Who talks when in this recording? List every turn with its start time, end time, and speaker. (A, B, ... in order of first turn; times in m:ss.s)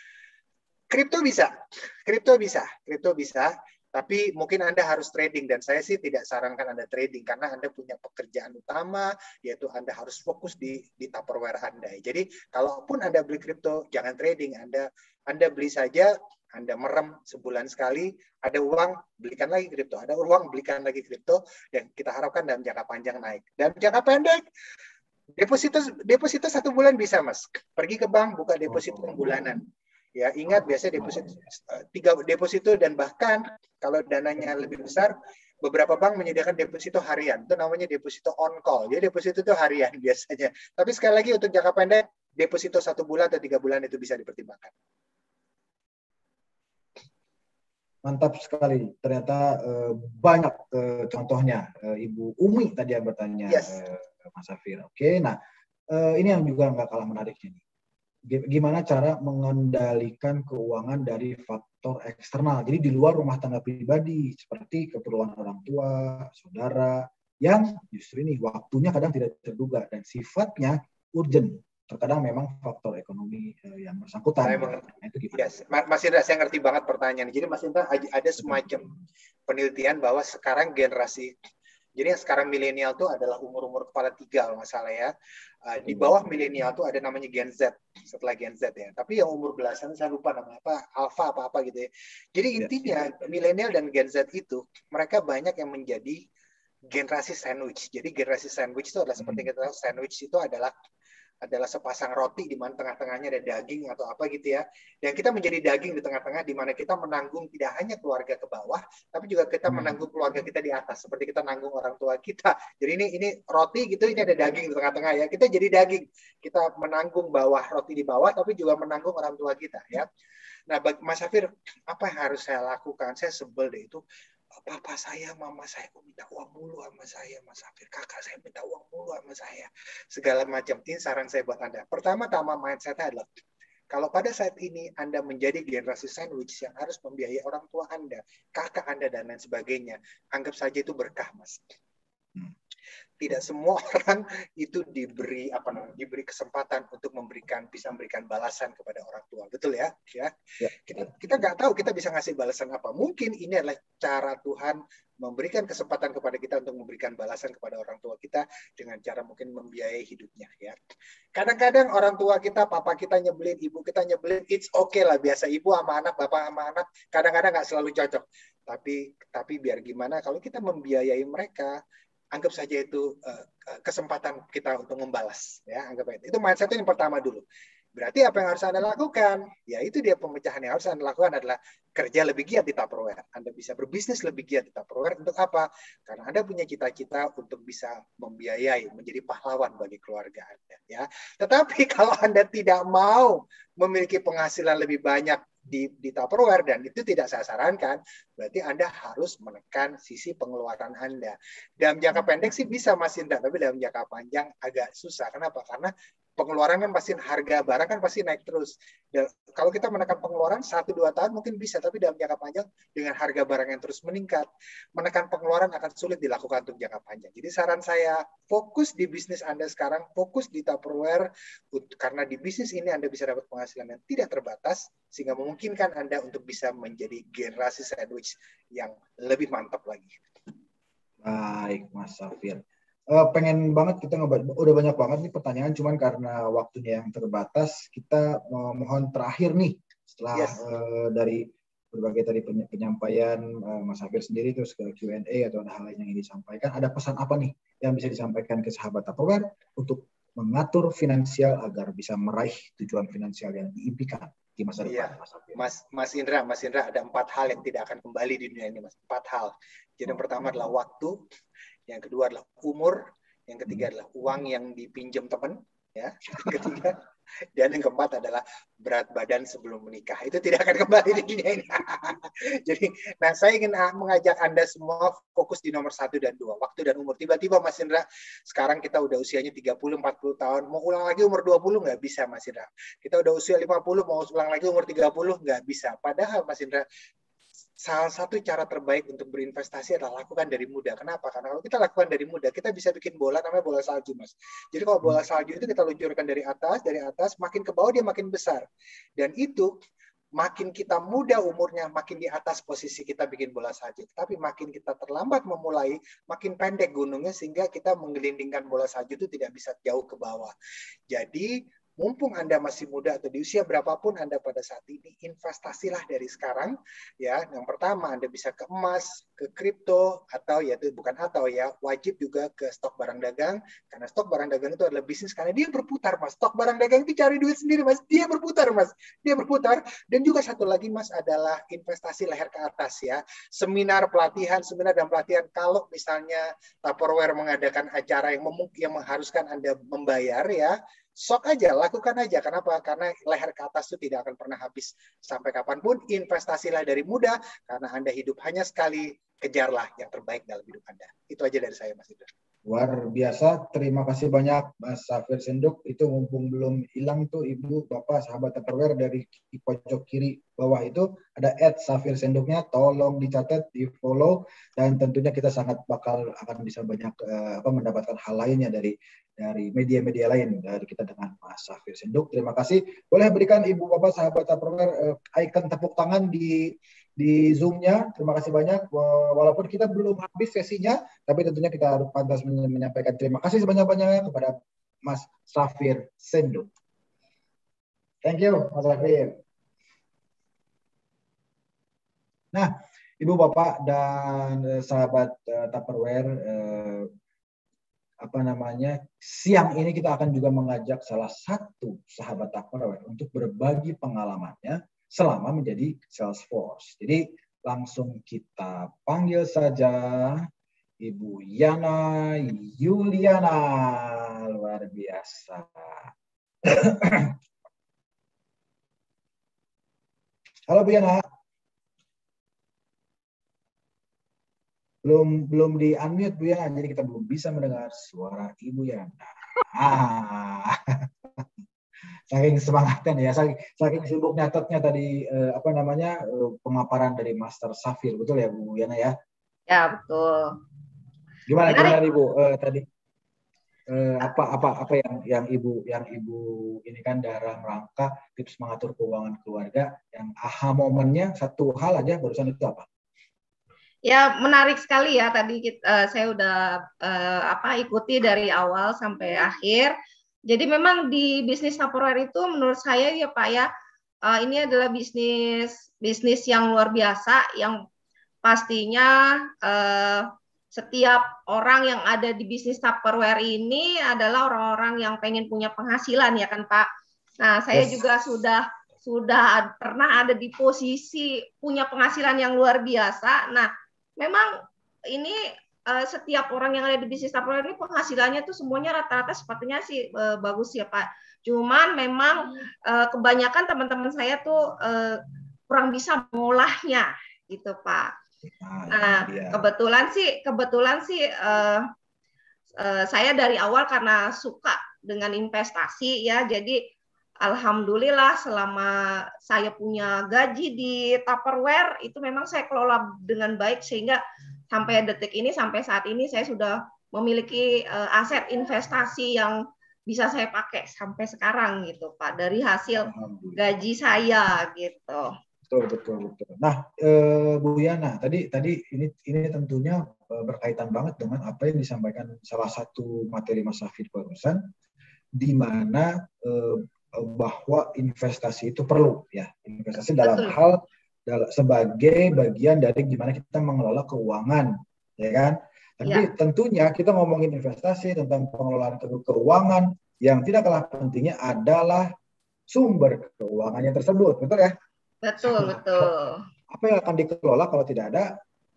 0:00.9-0:01.5 A
0:02.1-0:24.4 A
0:25.4-0:29.6 A
0:30.2-0:44.7 A
0:48.0-0:55.4 B
0:53.5-0:53.8 A
0:55.9-0:57.6 B
0:58.3-1:15.5 B
1:14.4-1:18.8 A
1:19.5-1:21.3 A
1:22.0-1:25.1 A
1:25.7-1:36.2 A
1:32.6-1:32.9 B
1:36.9-1:40.7 A
1:41.4-2:00.1 A
2:00.7-2:04.0 A
2:04.6-2:13.3 A
2:13.9-2:21.7 A
2:23.2-2:40.8 A
2:41.4-2:51.8 A
2:52.3-2:57.4 A
2:58.0-3:50.2 A
3:51.2-4:15.6 B
4:00.3-4:00.6 A
4:14.8-4:21.2 A
4:21.9-4:27.0 A
4:27.6-4:46.8 A
4:47.8-4:58.6 A
4:59.2-4:59.7 A
5:00.4-5:10.5 A
5:11.1-5:52.3 A
5:52.6-6:26.7 B
6:28.2-6:29.4 B
6:32.5-6:37.1 B
6:38.2-6:50.4 B
6:51.0-6:56.1 B
6:56.6-6:57.4 B
7:00.7-7:01.2 B
7:05.0-7:11.5 B
7:12.3-7:19.2 B
7:19.7-7:20.6 C
7:21.5-7:22.8 B
7:21.6-7:22.0 C
7:23.9-7:32.9 B
7:34.0-7:39.9 C
7:40.5-7:43.7 C
7:44.3-7:47.8 C
7:48.4-7:56.9 C
7:57.4-8:04.6 C
7:57.7-7:58.0 B
8:05.1-8:18.1 C
8:18.4-8:19.7 B
8:18.9-8:21.8 C
8:22.8-8:26.8 C
8:27.4-8:34.2 C
8:34.7-8:39.6 C
8:40.1-8:45.3 C
8:43.0-8:43.6 B
8:45.7-8:54.6 B
8:55.4-9:12.1 B
9:00.2-9:00.6 C
9:06.0-9:06.3 C
9:12.7-9:14.8 B
9:15.2-9:16.4 C
9:15.4-9:16.1 B
9:16.7-9:18.3 B